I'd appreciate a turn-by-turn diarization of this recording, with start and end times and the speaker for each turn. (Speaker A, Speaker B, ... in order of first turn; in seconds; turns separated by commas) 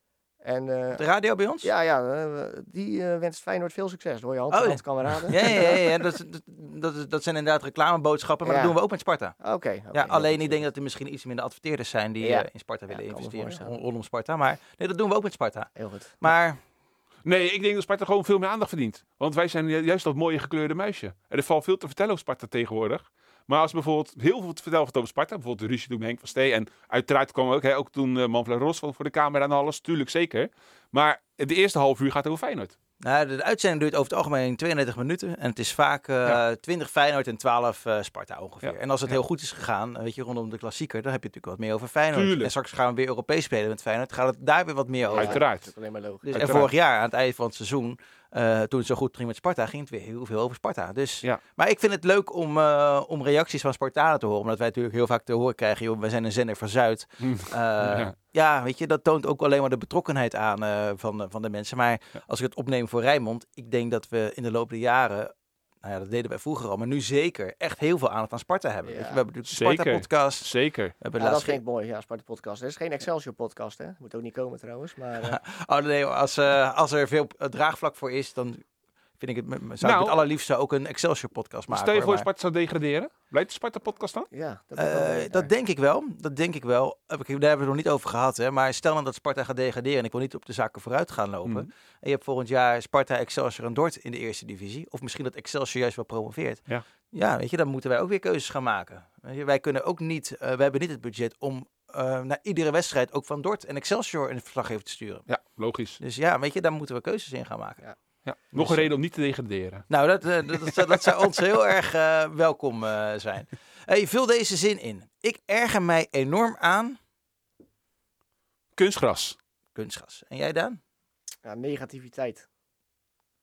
Speaker A: 0.4-1.0, Speaker B: 0.9-1.7, Speaker A: 1.6-6.0, Speaker B: 4.5-9.3, Speaker A: 8.4-8.8, Speaker A: 9.4-10.7, Speaker B: 9.9-16.6, Speaker A: 12.2-13.7, Speaker A: 15.8-16.2, Speaker C: 17.2-32.7, Speaker B: 33.0-45.4, Speaker C: 42.1-42.5, Speaker A: 45.0-46.5, Speaker C: 45.1-45.7, Speaker B: 46.2-70.5, Speaker C: 46.3-46.7, Speaker C: 57.2-58.1, Speaker A: 68.8-69.2, Speaker C: 69.5-71.0, Speaker B: 71.0-71.6, Speaker A: 71.2-75.4, Speaker B: 75.2-78.6, Speaker B: 79.2-82.3, Speaker C: 79.8-80.2, Speaker C: 81.7-84.3, Speaker A: 84.3-85.5, Speaker B: 84.8-105.3, Speaker C: 105.3-106.0, Speaker B: 106.0-107.8, Speaker C: 108.2-109.8, Speaker B: 108.5-108.9, Speaker B: 109.9-117.0, Speaker C: 118.8-119.4, Speaker B: 119.7-120.8, Speaker A: 121.4-122.5